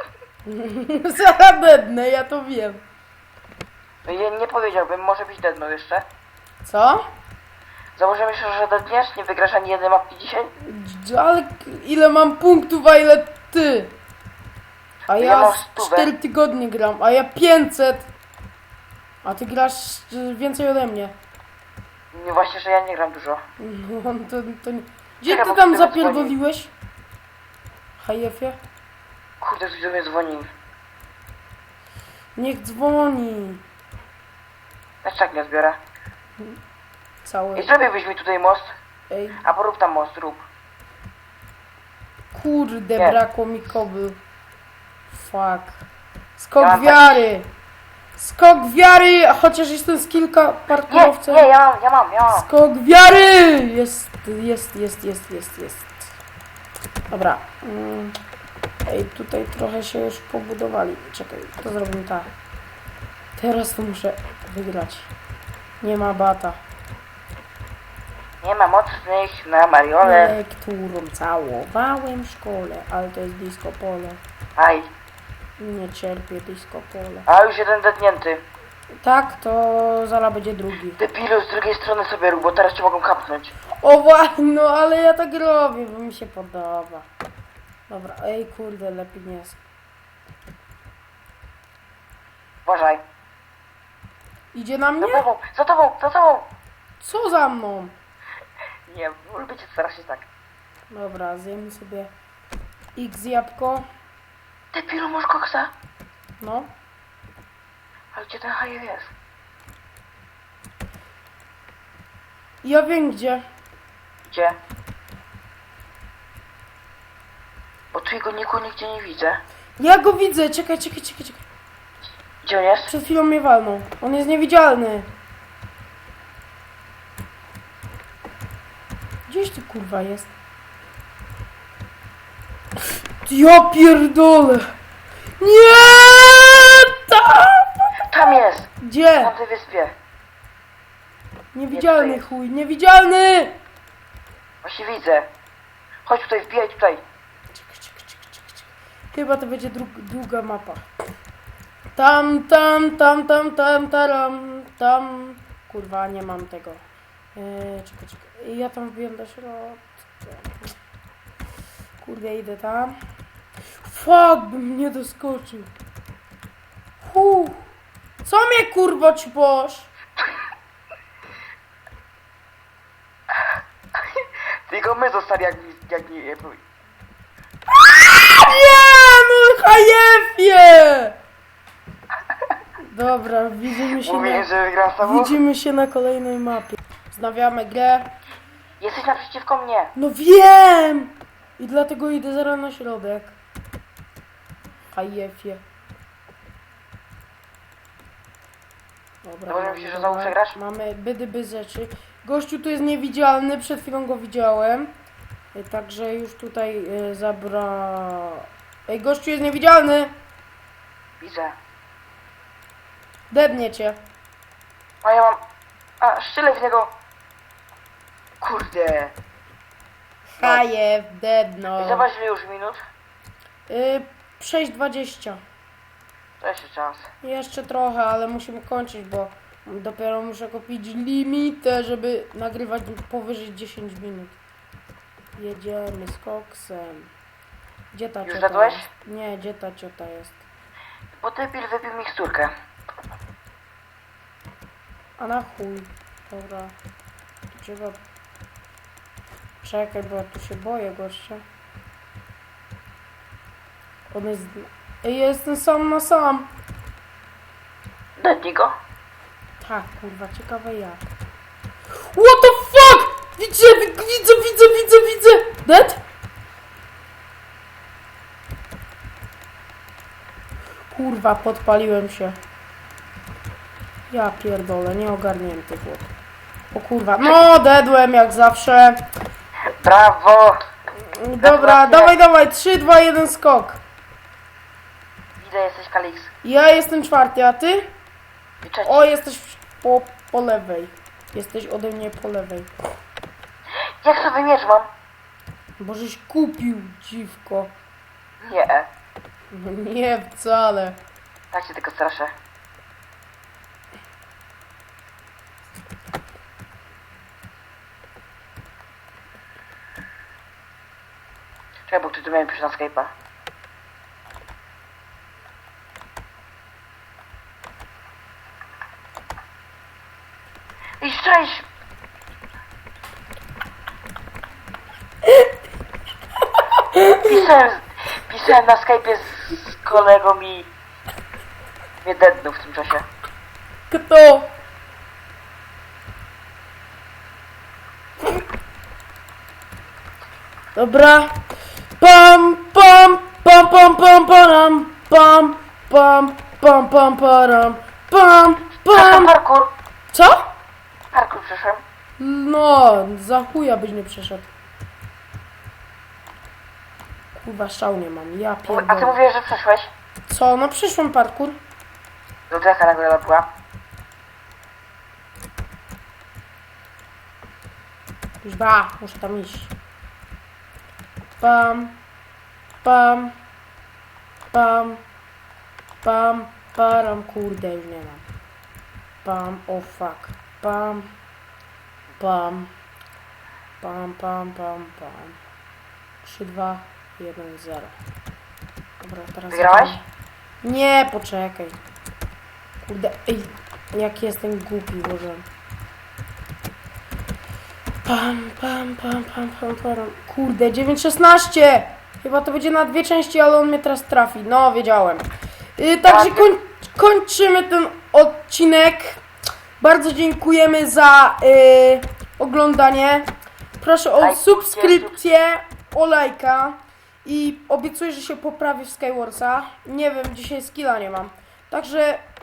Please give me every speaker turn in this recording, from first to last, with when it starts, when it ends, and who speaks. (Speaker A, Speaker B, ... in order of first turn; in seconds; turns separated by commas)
Speaker A: 0.4-2.8, Speaker B: 4.0-6.0, Speaker A: 6.6-7.0, Speaker B: 7.9-10.5, Speaker A: 10.6-13.9, Speaker A: 15.1-18.1, Speaker B: 15.2-16.1, Speaker A: 19.2-21.1, Speaker B: 22.1-23.4, Speaker A: 23.6-26.7, Speaker B: 25.3-26.4, Speaker A: 28.0-28.6, Speaker B: 29.4-30.5, Speaker A: 32.4-33.6, Speaker B: 35.0-35.8, Speaker A: 37.2-37.7, Speaker B: 37.5-38.7, Speaker A: 39.1-39.4, Speaker B: 39.4-40.5, Speaker A: 42.3-44.2, Speaker A: 45.1-45.9, Speaker A: 46.4-47.5, Speaker B: 46.6-47.2, Speaker A: 48.2-51.5, Speaker B: 50.9-52.5, Speaker A: 52.3-55.9, Speaker A: 57.1-58.1, Speaker A: 58.9-62.3, Speaker A: 63.4-65.1, Speaker A: 65.8-66.6, Speaker B: 68.4-70.4, Speaker A: 70.0-74.2, Speaker B: 74.6-74.9, Speaker A: 75.6-77.3, Speaker B: 77.2-78.4, Speaker A: 79.0-81.0, Speaker B: 81.0-83.5, Speaker A: 83.8-87.1, Speaker A: 87.9-89.6, Speaker B: 92.6-93.0, Speaker A: 94.5-95.2, Speaker B: 95.0-96.5, Speaker A: 97.0-97.9, Speaker B: 98.9-100.3, Speaker A: 100.9-102.1, Speaker A: 103.0-103.8, Speaker B: 104.7-105.7, Speaker A: 106.4-106.7, Speaker B: 108.1-109.1, Speaker A: 112.6-113.4, Speaker B: 114.2-114.6, Speaker B: 117.9-119.4, Speaker A: 119.8-121.4, Speaker B: 122.4-122.9, Speaker A: 122.9-125.1, Speaker A: 129.3-130.3, Speaker A: 133.2-134.7, Speaker A: 135.4-139.3, Speaker B: 138.0-139.9, Speaker A: 141.5-143.6, Speaker B: 141.7-142.2, Speaker B: 144.6-145.3, Speaker B: 146.0-147.0, Speaker A: 147.5-150.8, Speaker A: 151.9-156.8, Speaker A: 157.3-160.7, Speaker A: 162.0-162.9, Speaker A: 163.8-165.7, Speaker A: 167.0-167.6, Speaker A: 168.2-169.9, Speaker B: 174.1-176.6, Speaker A: 177.7-181.2, Speaker A: 182.9-184.5, Speaker B: 184.0-185.4, Speaker A: 185.0-188.1, Speaker B: 188.8-189.9, Speaker A: 189.9-193.3, Speaker A: 194.9-195.6, Speaker A: 199.2-204.9, Speaker B: 199.5-200.6, Speaker A: 205.5-210.1, Speaker B: 211.2-211.6, Speaker A: 213.3-214.0, Speaker B: 215.0-215.4, Speaker B: 216.0-216.9, Speaker B: 218.4-219.1, Speaker A: 220.3-222.1, Speaker B: 220.4-220.6, Speaker B: 221.8-222.8, Speaker A: 223.7-225.4, Speaker B: 226.4-227.1, Speaker A: 227.2-234.3, Speaker A: 235.4-237.1, Speaker A: 237.9-240.4, Speaker B: 238.2-238.9, Speaker B: 241.1-242.5, Speaker A: 245.2-246.7, Speaker A: 247.5-248.0, Speaker A: 249.6-251.4, Speaker A: 254.1-256.5, Speaker B: 258.2-258.7, Speaker A: 259.6-261.0, Speaker A: 262.1-266.0, Speaker A: 270.9-272.4, Speaker A: 274.1-276.1, Speaker A: 276.7-279.0, Speaker B: 279.8-280.6, Speaker A: 281.0-283.8, Speaker B: 281.4-282.1, Speaker B: 285.4-286.3, Speaker A: 286.4-287.9, Speaker B: 288.6-289.1, Speaker A: 288.8-292.7, Speaker B: 294.0-294.9, Speaker A: 295.8-297.7, Speaker B: 298.4-298.9, Speaker A: 299.5-301.0, Speaker B: 301.5-302.3, Speaker B: 311.9-313.1, Speaker B: 321.0-321.6, Speaker A: 326.9-327.3, Speaker B: 327.2-330.7, Speaker B: 332.0-333.1, Speaker A: 333.9-334.5, Speaker A: 340.7-341.4, Speaker A: 342.0-349.3, Speaker B: 348.9-349.7, Speaker A: 350.1-350.5, Speaker B: 351.1-351.8, Speaker A: 352.2-354.5, Speaker A: 357.3-359.2, Speaker B: 358.7-359.9, Speaker A: 360.3-361.6, Speaker B: 362.5-363.5, Speaker A: 368.4-369.7, Speaker A: 371.4-372.0, Speaker A: 372.8-373.3, Speaker A: 374.5-375.0, Speaker A: 376.0-378.2, Speaker A: 379.2-381.1, Speaker A: 382.2-382.7, Speaker A: 383.8-385.4, Speaker A: 386.2-387.9, Speaker A: 389.0-390.0, Speaker B: 389.5-390.0, Speaker A: 390.6-391.8, Speaker A: 392.8-395.4, Speaker A: 398.0-405.2, Speaker A: 405.8-409.2, Speaker B: 406.0-406.5, Speaker A: 409.8-413.3, Speaker A: 413.8-422.2, Speaker B: 414.1-415.1